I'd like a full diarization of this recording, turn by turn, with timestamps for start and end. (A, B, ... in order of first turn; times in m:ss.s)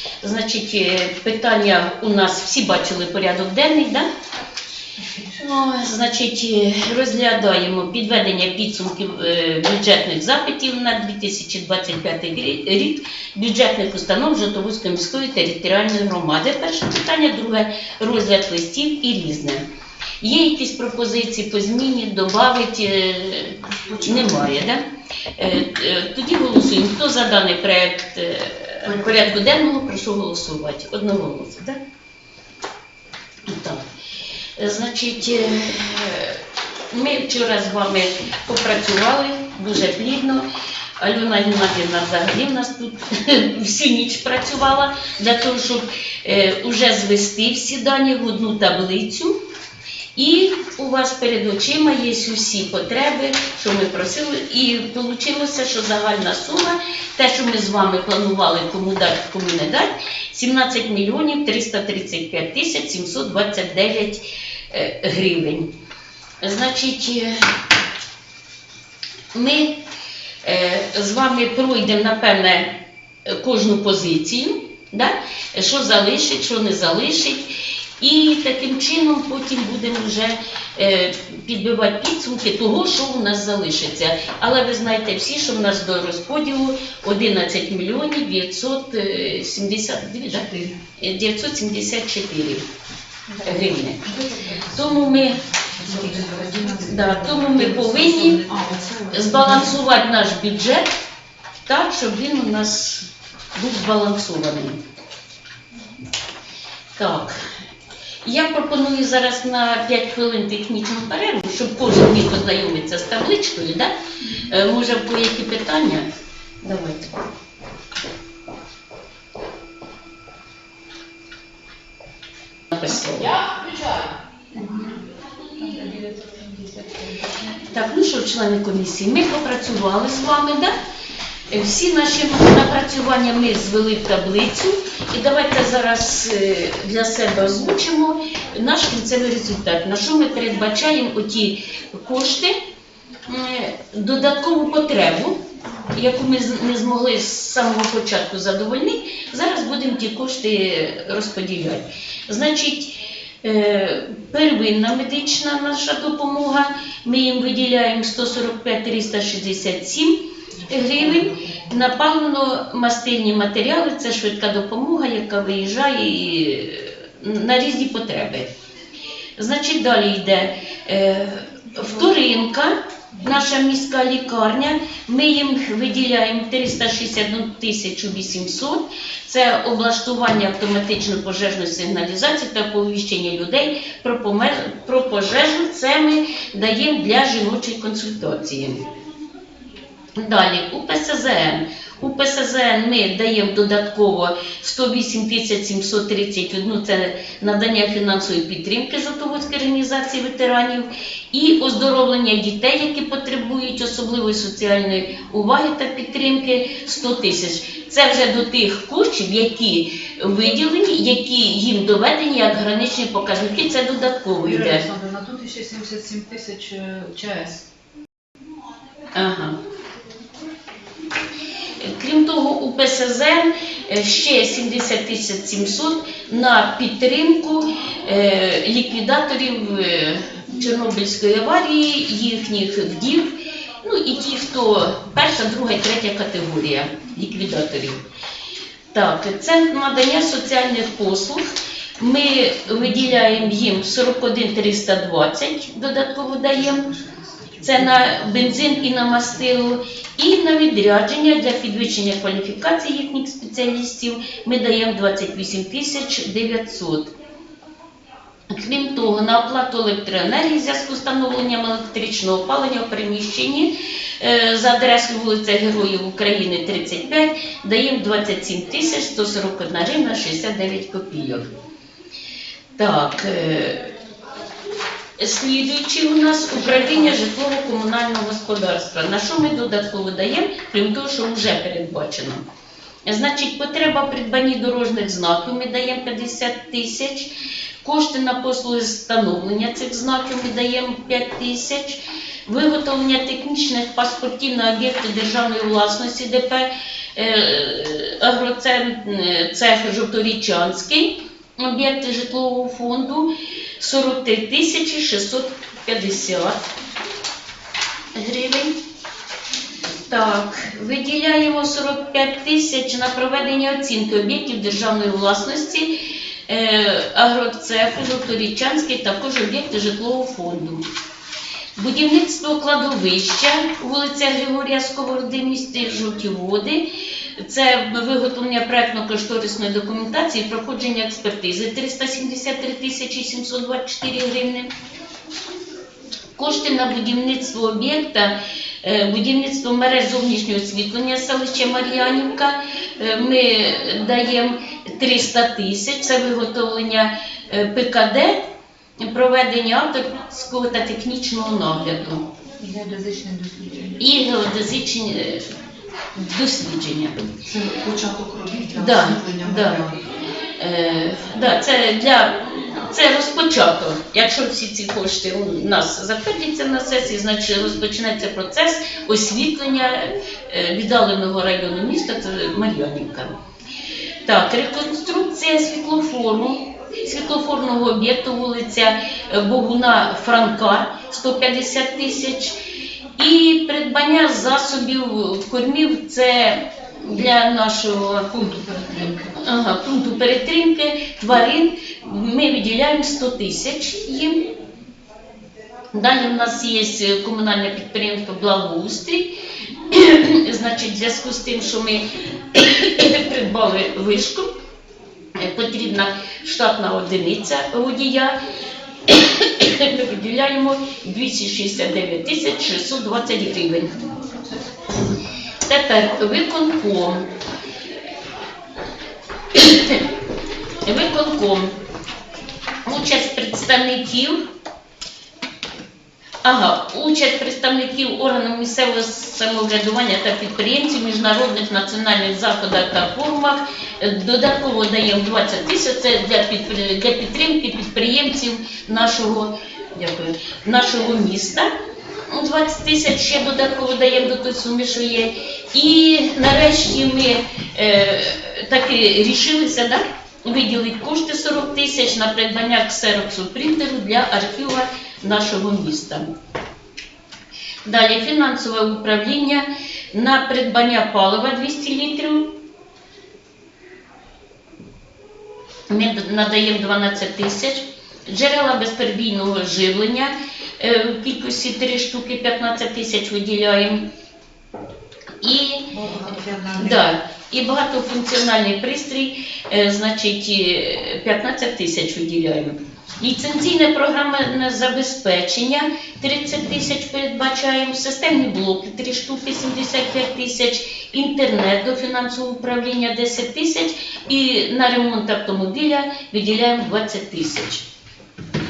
0:00.2-0:04.1 A
0:05.0-0:05.4 B
0:05.4-0:19.6 A
0:20.2-0:24.8 A
0:23.7-0:24.5 B
0:25.4-0:31.8 A
0:28.9-0:29.2 B
0:33.5-0:33.8 A
0:34.6-0:40.4 A
0:41.0-0:49.3 A
0:50.1-1:05.7 A
1:06.4-1:07.4 A
1:09.3-1:09.8 A
1:10.4-1:32.6 A
1:30.4-1:30.7 B
1:33.3-1:39.8 B
1:33.4-1:34.1 A
1:34.6-1:38.4 A
1:39.1-1:40.9 A
1:41.6-1:44.8 A
1:47.0-1:47.3 A
1:48.2-1:56.1 A
1:56.6-1:57.3 A
2:02.7-2:03.6 A
2:04.5-2:05.0 B
2:05.6-2:07.7 B
2:07.6-2:10.7 A
2:11.5-2:22.5 A
2:23.2-2:48.5 A
2:40.6-2:41.7 B
2:49.4-3:08.8 A
3:10.2-3:34.8 A
3:34.4-3:37.6 B
3:39.1-3:39.6 A
3:41.8-3:58.0 A
3:58.9-4:01.5 A
4:02.0-4:06.9 A
4:06.7-4:08.8 B
4:07.6-4:17.1 A
4:18.5-4:31.5 A
4:32.8-4:33.9 A
4:35.2-4:42.4 A
4:43.1-4:47.3 A
4:47.8-5:06.7 A
5:08.1-5:08.7 A
5:10.0-5:15.9 A
5:16.5-5:20.8 A
5:21.8-5:26.8 A
5:27.4-5:34.7 A
5:36.4-5:48.4 A
5:49.0-5:52.3 A
5:52.6-5:54.0 B
5:54.0-5:55.5 A
5:56.1-5:57.2 A
5:57.4-6:00.1 B
5:58.7-5:59.9 A
6:00.6-6:13.3 A
6:14.2-6:22.5 A
6:23.2-6:28.3 A
6:28.3-6:29.3 B
6:29.4-6:34.5 A
6:35.9-6:39.3 A
6:39.9-6:44.5 A
6:45.4-6:48.4 A
6:49.1-6:54.0 A
6:55.6-6:57.3 A
6:59.5-7:00.0 A
7:00.8-7:01.7 A
7:02.8-7:04.4 A
7:06.4-7:21.7 A
7:22.3-7:36.3 A
7:37.8-7:42.5 A
7:45.9-7:54.0 A
7:55.4-7:55.9 A
7:55.9-7:57.1 B
7:56.8-8:17.8 A